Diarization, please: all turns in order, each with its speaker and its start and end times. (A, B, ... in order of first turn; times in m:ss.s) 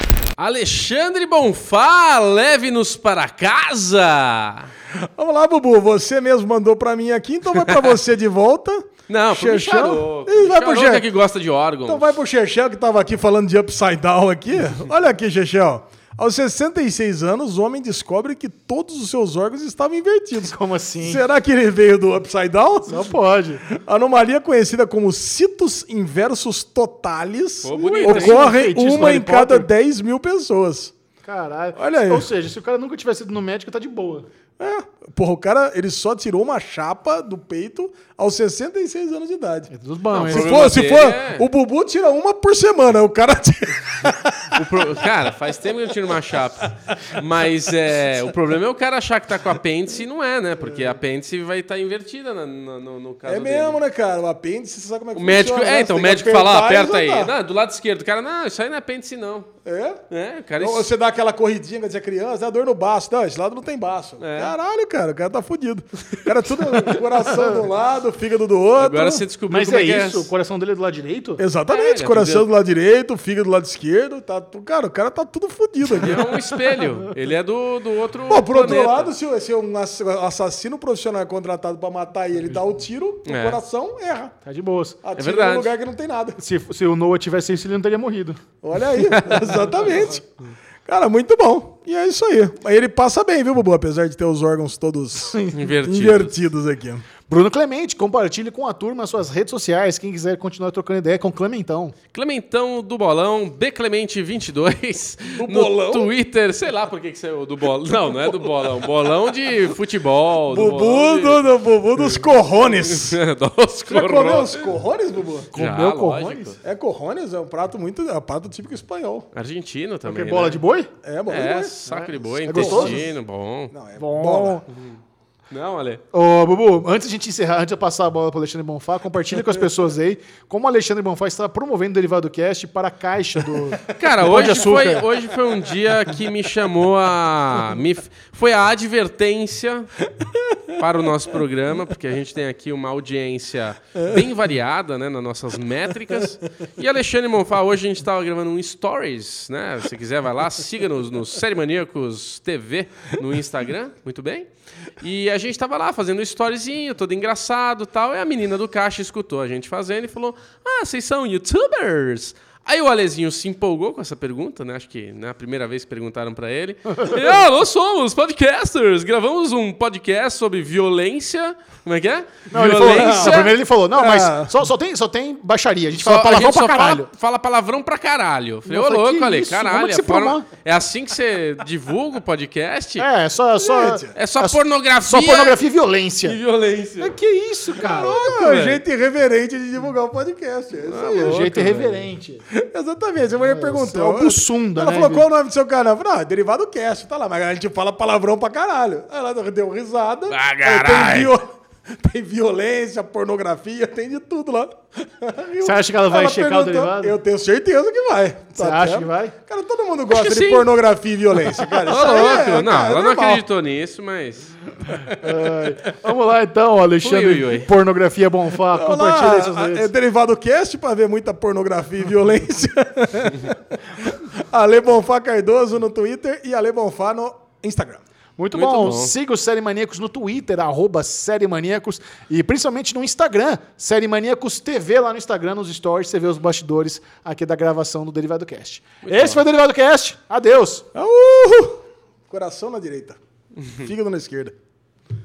0:00.4-0:04.7 A
0:04.9-0:11.0 B
0:09.1-0:12.1 A
0:11.8-0:23.1 B
0:20.4-0:21.2 C
0:22.8-0:23.6 C
0:23.6-0:30.9 B
0:27.6-0:28.5 A
0:27.7-0:29.7 C
0:31.2-0:34.3 C
0:31.8-0:32.3 B
0:34.6-0:45.1 B
0:39.7-0:40.6 C
0:40.1-0:41.5 A
0:44.5-0:53.8 A
0:50.7-0:51.0 B
0:53.2-0:57.3 B
0:55.2-0:59.5 A
0:59.6-1:00.0 B
1:00.1-1:00.9 A
1:00.6-1:09.2 B
1:04.2-1:04.5 A
1:08.8-1:10.3 A
1:09.5-1:11.4 C
1:11.4-1:16.4 B
1:11.7-1:12.4 A
1:15.9-1:19.1 A
1:18.3-1:24.3 B
1:23.2-1:23.6 A
1:24.4-1:25.0 C
1:25.0-1:26.4 B
1:25.2-1:25.7 A
1:26.4-1:28.4 C
1:28.6-1:30.3 B
1:29.0-1:29.6 A
1:30.8-1:37.0 B
1:35.5-1:36.3 A
1:37.3-1:41.9 C
1:42.1-1:51.4 A
1:45.4-1:46.1 B
1:50.5-1:53.2 B
1:52.6-1:54.7 A
1:53.8-1:55.5 B
1:55.5-1:56.6 A
1:55.5-1:56.6 C
1:56.6-1:59.3 B
1:59.3-2:00.6 A
2:00.0-2:00.9 C
2:01.0-2:03.2 B
2:01.3-2:03.7 A
2:02.4-2:03.1 C
2:03.7-2:04.6 B
2:04.0-2:04.6 C
2:04.7-2:05.0 A
2:05.5-2:06.0 A
2:06.1-2:15.0 C
2:13.9-2:19.9 A
2:14.0-2:15.2 B
2:20.2-2:20.7 B
2:20.7-2:53.6 A
2:52.5-2:57.1 C
2:52.8-2:54.5 B
2:56.0-3:03.1 A
2:58.7-3:00.5 C
3:03.0-3:06.4 C
3:03.6-3:04.1 B
3:04.1-3:05.6 A
3:06.2-3:07.2 A
3:07.0-3:08.2 C
3:07.8-3:11.4 B
3:07.8-3:08.8 A
3:10.9-3:12.0 A
3:11.2-3:12.4 C
3:12.5-3:33.4 B
3:13.4-3:15.2 C
3:20.3-3:21.3 A
3:25.6-3:27.2 C
3:28.6-3:29.3 C
3:30.1-3:30.7 A
3:31.7-3:34.5 A
3:34.9-3:35.3 B
3:35.1-3:39.9 C
3:37.0-3:37.7 A
3:38.6-3:48.0 B
3:48.4-4:00.8 C
3:48.5-3:49.1 A
3:59.0-3:59.4 A
4:00.9-4:03.2 B
4:03.6-4:03.9 A
4:03.7-4:04.5 B